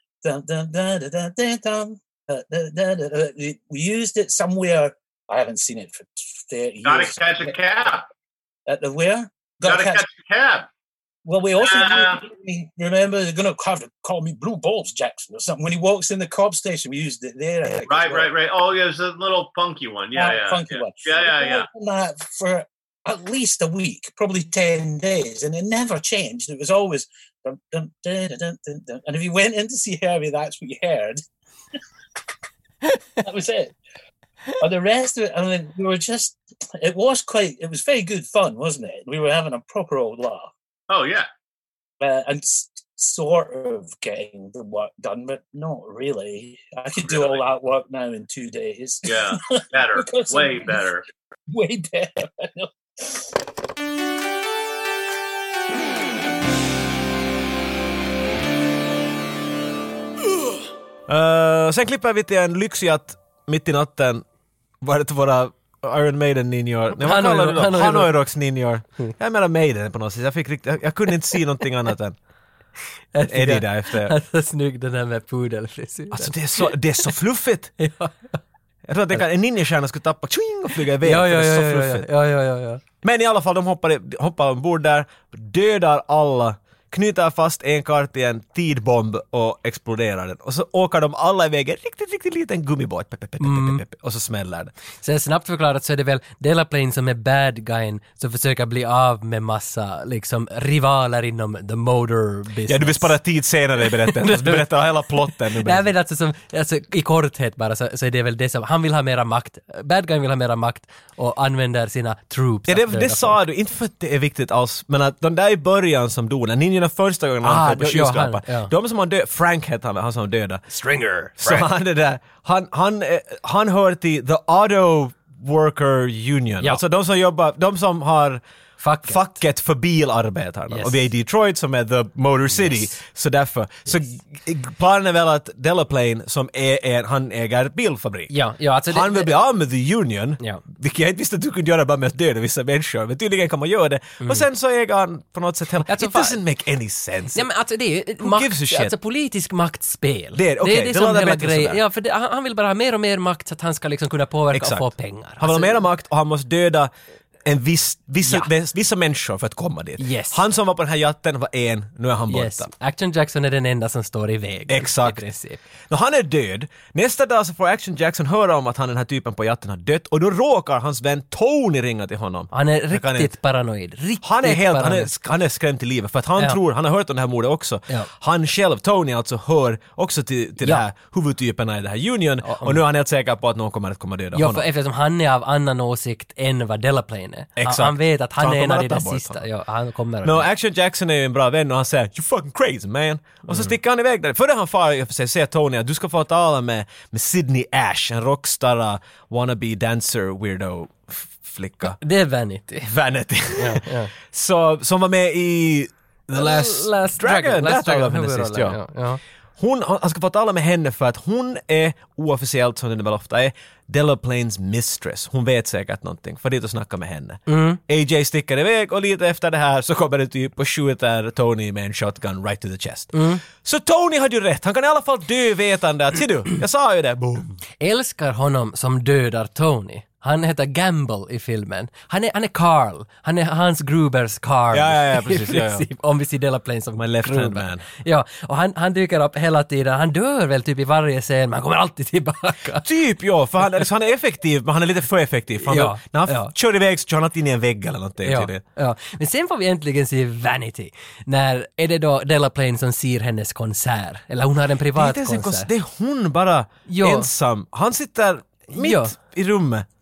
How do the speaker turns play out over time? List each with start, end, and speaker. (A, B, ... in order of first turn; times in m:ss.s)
0:00.2-0:07.5 A
0:06.8-0:08.0 B
0:08.7-0:10.0 A
0:09.6-0:10.7 B
0:11.2-0:18.3 A
0:11.6-0:12.2 B
0:17.8-0:21.7 B
0:20.2-0:31.2 A
0:33.2-0:33.8 A
0:34.6-0:40.5 A
0:40.9-0:41.3 B
0:42.0-0:50.8 A
0:47.0-0:47.4 B
0:49.0-0:51.0 B
0:51.5-0:53.2 A
1:01.1-1:04.2 C
1:04.8-1:12.2 C
1:06.9-1:08.2 D
1:13.1-1:17.1 D
1:13.3-1:14.2 C
1:16.1-1:17.7 C
1:17.8-1:18.4 D
1:18.9-1:22.1 C
1:21.0-1:22.8 D
1:23.0-1:34.7 C
1:33.4-1:33.8 D
1:35.0-1:43.2 D
1:42.7-1:45.9 C
1:43.8-1:44.6 D
1:45.5-1:53.4 D
1:52.7-2:00.6 C
1:57.4-1:58.7 D
2:00.7-2:01.7 D
2:01.4-2:08.4 C
2:08.8-2:09.3 D
2:09.0-2:18.3 C
2:10.7-2:11.0 D
2:12.5-2:12.9 D
2:18.3-2:19.3 D
2:18.9-2:27.5 C
2:24.2-2:24.5 D
2:25.8-2:26.4 D
2:27.4-2:35.8 D
2:28.2-2:28.9 C
2:30.3-2:31.8 C
2:34.5-2:36.9 C
2:37.4-2:42.7 C
2:40.0-2:40.4 D
2:42.3-2:45.6 D
2:44.7-2:45.2 C
2:45.9-2:53.3 C
2:52.5-2:55.1 D
2:54.2-3:04.7 C
3:02.4-3:02.8 D
3:04.3-3:10.5 D
3:07.6-3:09.4 C
3:10.2-3:22.0 C
3:22.0-3:22.9 D
3:22.8-3:28.8 C
3:23.6-3:24.1 D
3:26.3-3:29.2 D
3:29.6-3:47.6 C
3:37.5-3:37.8 D
3:43.1-3:43.4 D
3:47.8-4:02.9 D
3:54.7-3:55.9 C
3:57.0-3:57.8 C
4:02.8-4:08.6 C
4:05.6-4:06.5 D
4:08.2-4:15.7 D
4:14.9-4:19.9 C
4:16.9-4:17.3 D
4:18.7-4:19.2 D